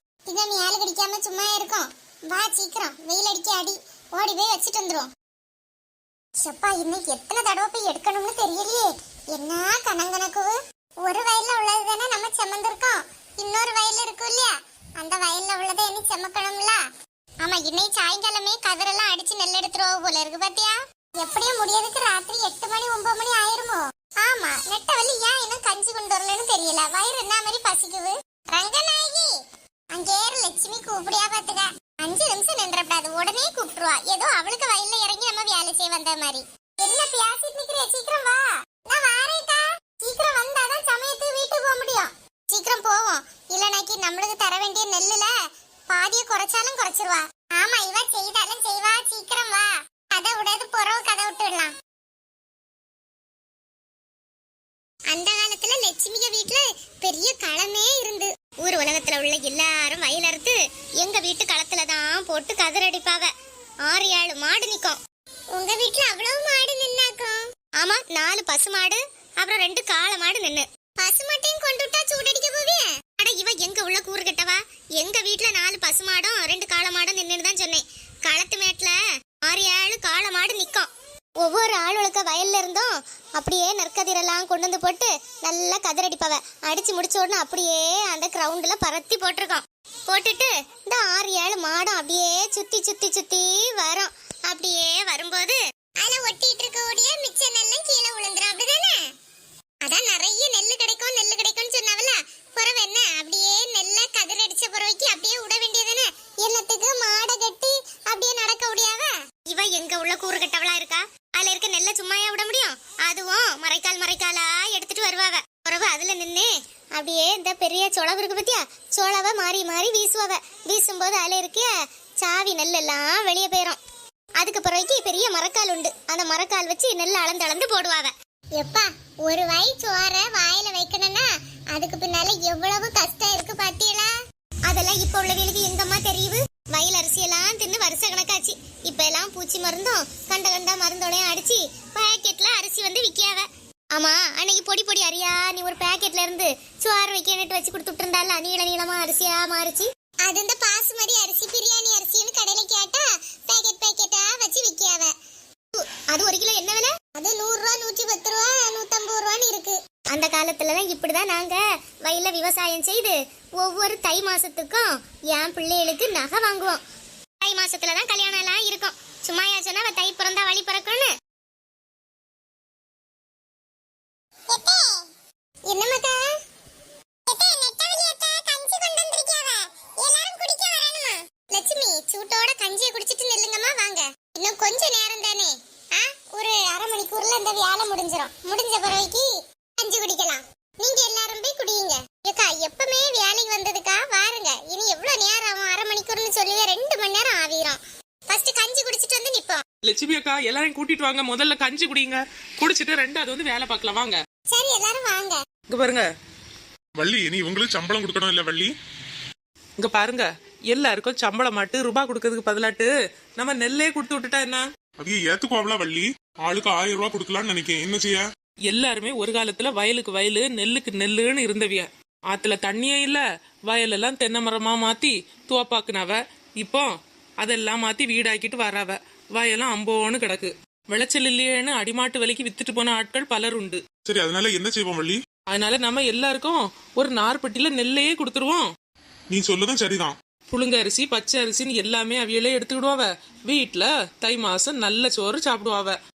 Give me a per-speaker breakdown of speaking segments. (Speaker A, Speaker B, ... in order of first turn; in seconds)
Speaker A: 0.2-5.1, 6.4-16.8, 17.4-29.3, 29.9-45.3, 45.9-51.7, 55.1-63.3, 63.8-65.0, 65.5-80.9, 81.4-99.0, 99.8-123.8, 124.4-134.1, 134.7-155.1, 155.8-166.8, 167.4-171.1, 174.5-175.1, 175.7-176.2, 177.3-199.6, 204.5-205.4
Speaker B: 199.8-204.2, 205.7-206.1, 209.8-214.7, 218.7-226.9, 227.4-233.8, 235.5-238.7, 240.5-246.0
Speaker C: 207.0-208.7, 215.0-218.2, 234.0-235.2, 239.3-240.1